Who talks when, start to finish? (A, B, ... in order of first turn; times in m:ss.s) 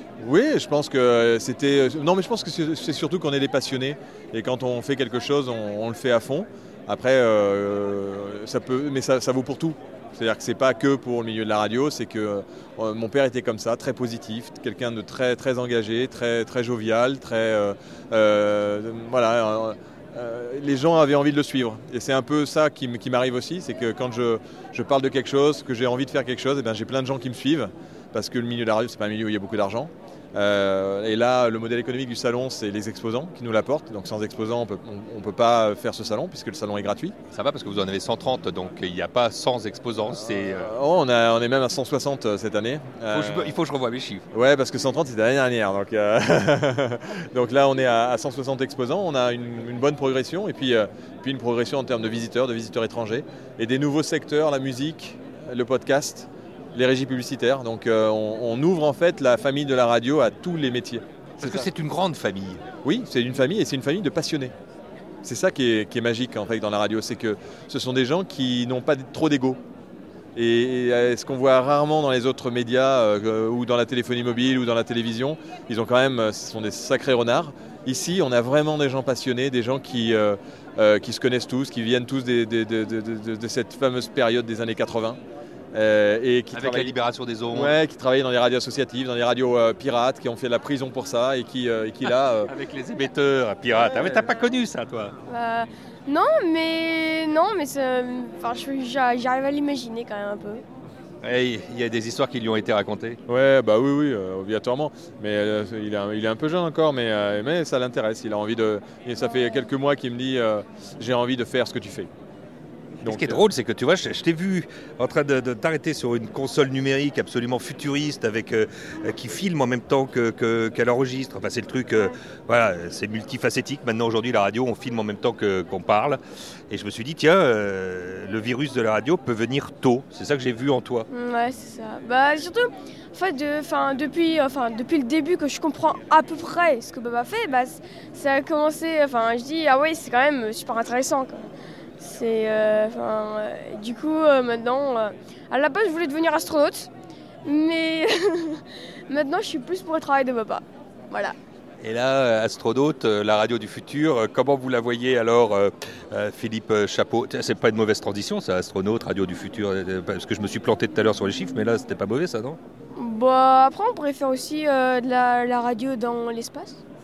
0:00.2-0:37.1 A
0:37.3-0:40.7 B
0:40.1-0:43.6 A
0:43.1-0:44.2 B
0:44.3-1:01.7 A
1:01.4-1:02.6 B
1:02.8-1:04.5 A
1:05.2-1:09.6 A
1:10.4-1:25.2 A
1:25.7-1:26.9 A
1:26.5-1:27.8 B
1:27.5-1:32.5 A
1:32.0-1:35.1 B
1:35.3-1:40.6 C
1:41.2-1:43.2 B
1:43.3-1:52.1 A
1:53.0-2:11.1 B
1:53.0-1:53.4 A
2:11.1-2:21.4 C
2:22.0-2:26.9 C
2:27.4-2:31.3 C
2:31.8-2:42.6 B
2:43.0-2:46.8 C